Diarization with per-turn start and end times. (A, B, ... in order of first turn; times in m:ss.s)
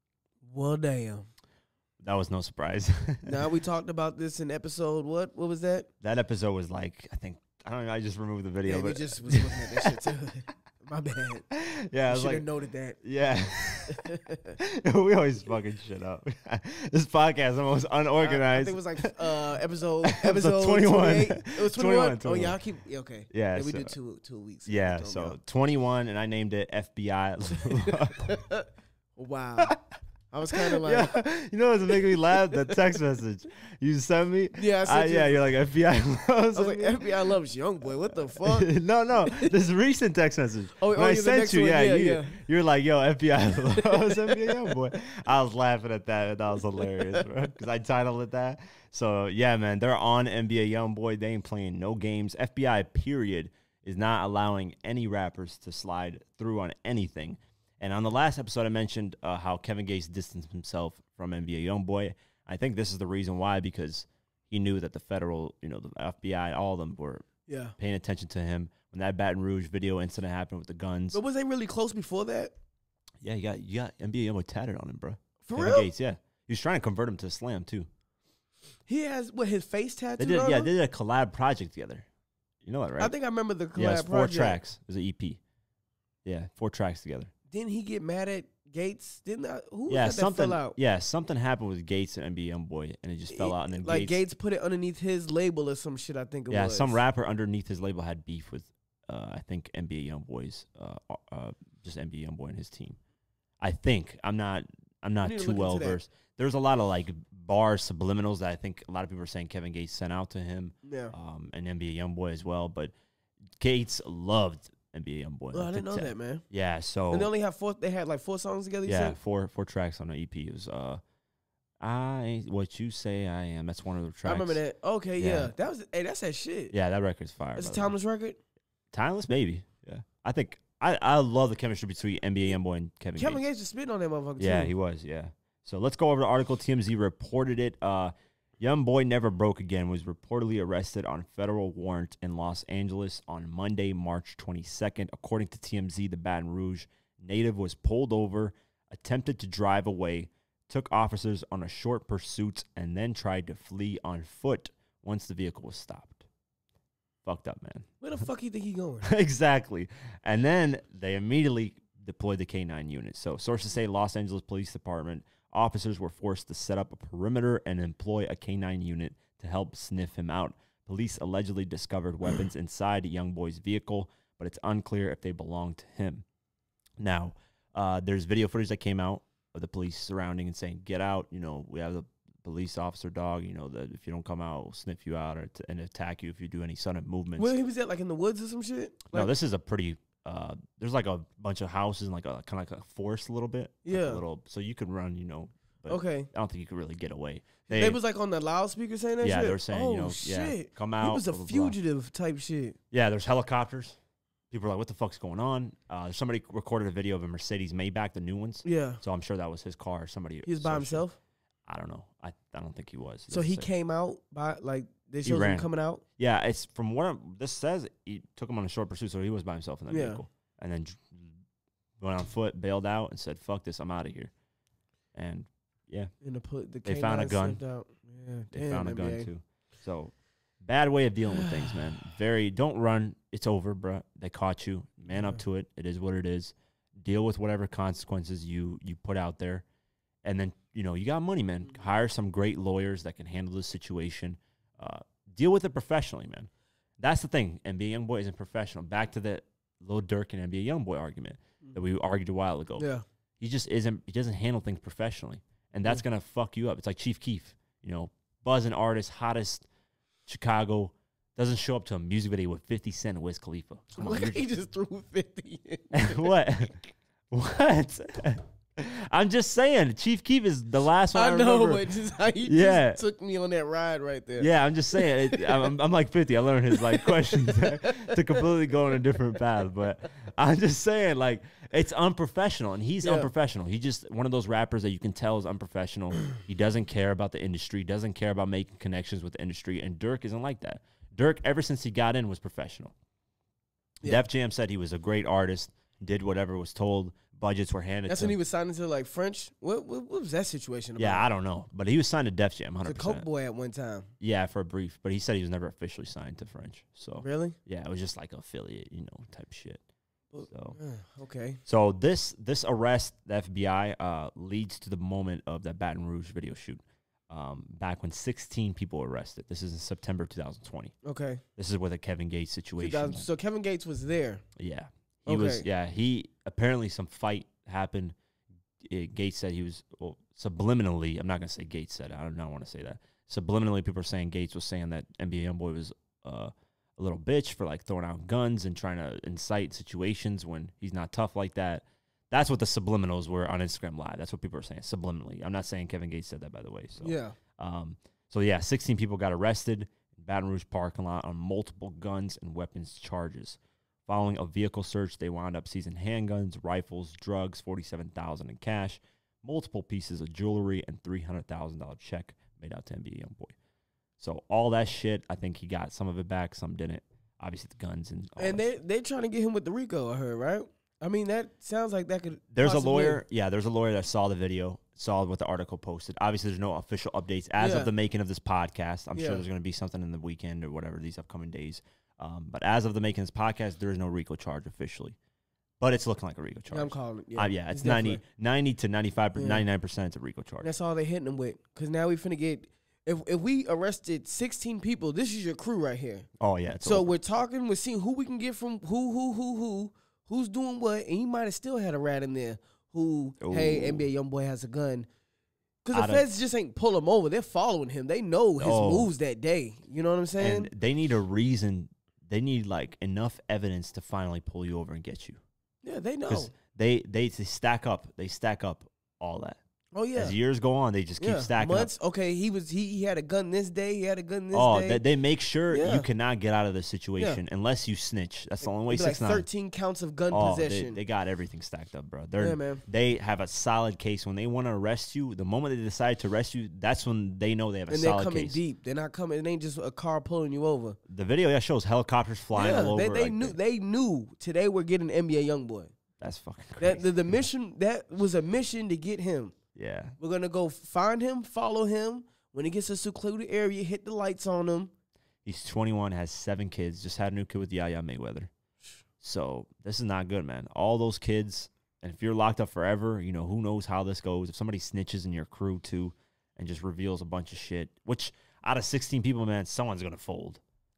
0:00.4-0:01.3 A
0:02.0-0:03.4 B
0:03.2-0:05.9 A
0:06.0-0:10.0 B
0:08.6-0:11.4 A
0:11.5-0:12.5 B
0:12.1-0:13.0 A
0:13.0-0:14.1 B
0:13.9-0:14.6 A
0:14.6-0:19.4 B
0:18.2-0:25.4 A
0:20.0-0:22.6 B
0:23.3-0:23.9 B
0:24.7-0:28.3 B
0:27.9-0:29.8 A
0:30.3-0:31.1 A
0:30.5-0:37.1 B
0:34.6-0:35.5 A
0:36.5-0:38.7 A
0:38.4-1:07.3 B
0:39.2-0:39.5 A
0:40.8-0:42.4 A
0:43.7-0:44.8 A
1:07.5-1:07.8 A
1:07.8-1:11.2 B
1:11.1-1:12.5 A
1:13.2-1:17.9 B
1:15.4-1:15.9 A
1:18.9-1:20.7 A
1:20.2-1:22.1 B
1:22.6-1:23.1 B
1:23.0-1:24.6 A
1:23.7-1:25.4 B
1:26.2-1:27.3 B
1:27.5-1:30.8 A
1:29.9-1:34.2 B
1:33.3-1:37.0 A
1:36.5-1:43.0 B
1:43.6-1:52.9 B
1:45.2-1:46.0 A
1:50.8-1:51.1 A
1:53.6-1:57.3 B
1:55.5-1:56.4 A
1:57.1-1:59.2 A
1:58.8-2:01.0 B
2:01.8-2:04.6 B
2:04.2-2:06.7 A
2:05.2-2:05.5 B
2:06.7-2:07.9 B
2:07.6-2:08.4 A
2:08.9-2:13.4 B
2:13.2-2:14.7 A
2:14.4-2:36.3 B
2:37.3-2:37.9 B
2:38.0-2:39.1 A
2:39.0-2:56.2 B
2:57.0-3:07.5 B
3:07.4-3:09.3 A
3:09.1-3:18.0 B
3:13.8-3:14.2 A
3:15.9-3:16.3 A
3:17.7-3:22.8 A
3:19.2-3:21.8 B
3:22.9-3:24.0 B
3:24.5-3:31.0 B
3:28.6-3:29.0 A
3:30.5-3:31.2 A
3:31.7-3:33.7 B
3:33.3-3:36.0 A
3:35.2-3:41.3 B
3:39.9-3:40.2 A
3:42.0-3:44.3 B
3:45.1-3:46.1 B
3:46.2-3:49.3 A
3:46.8-3:47.6 B
3:48.5-3:59.6 B
3:51.3-3:51.8 A
4:00.2-4:12.9 B
4:12.8-4:13.0 A
4:13.4-4:19.7 B
4:20.3-4:24.5 B
4:24.0-4:26.3 A
4:25.9-4:31.9 B
4:31.1-4:35.7 A
4:32.4-4:33.0 B
4:34.4-4:52.9 B
4:36.7-4:38.2 A
4:43.0-4:43.3 A
4:54.0-4:58.4 B
4:58.1-5:01.2 A
5:01.0-5:03.3 B
5:02.8-5:04.1 A
5:04.2-5:09.8 B
5:07.2-5:07.6 A
5:10.3-5:11.6 A
5:10.5-5:10.8 B
5:11.7-5:20.9 B
5:21.0-5:21.4 A
5:21.6-5:23.3 B
5:22.8-5:24.4 A
5:24.6-5:28.2 B
5:25.3-5:25.7 A
5:28.8-6:03.6 B
5:47.0-5:47.4 A
6:04.2-6:08.6 B
6:08.4-6:13.2 A
6:12.5-6:25.2 B
6:17.6-6:17.9 A
6:19.2-6:19.4 A
6:25.8-6:30.7 B
6:26.7-6:28.2 A
6:29.4-6:29.6 A
6:30.6-6:36.3 A
6:36.4-6:37.1 B
6:36.8-6:45.1 A
6:43.4-6:44.1 B
6:45.8-6:50.7 A
6:45.9-6:46.2 B
6:48.6-6:49.1 B
6:50.4-6:55.4 B
6:55.8-6:56.5 A
6:56.3-6:59.6 B
6:59.9-7:00.4 A
7:00.2-7:01.9 B
7:01.2-7:05.0 A
7:04.5-7:09.5 B
7:05.7-7:06.1 A
7:08.8-7:11.0 A
7:10.3-7:18.6 B
7:12.4-7:12.8 A
7:17.9-7:21.0 A
7:21.1-7:23.6 B
7:22.6-7:25.9 A
7:26.2-7:27.1 B
7:26.8-7:29.6 A
7:29.8-7:30.2 B
7:30.2-7:34.9 A
7:35.4-7:38.5 B
7:39.2-7:50.6 B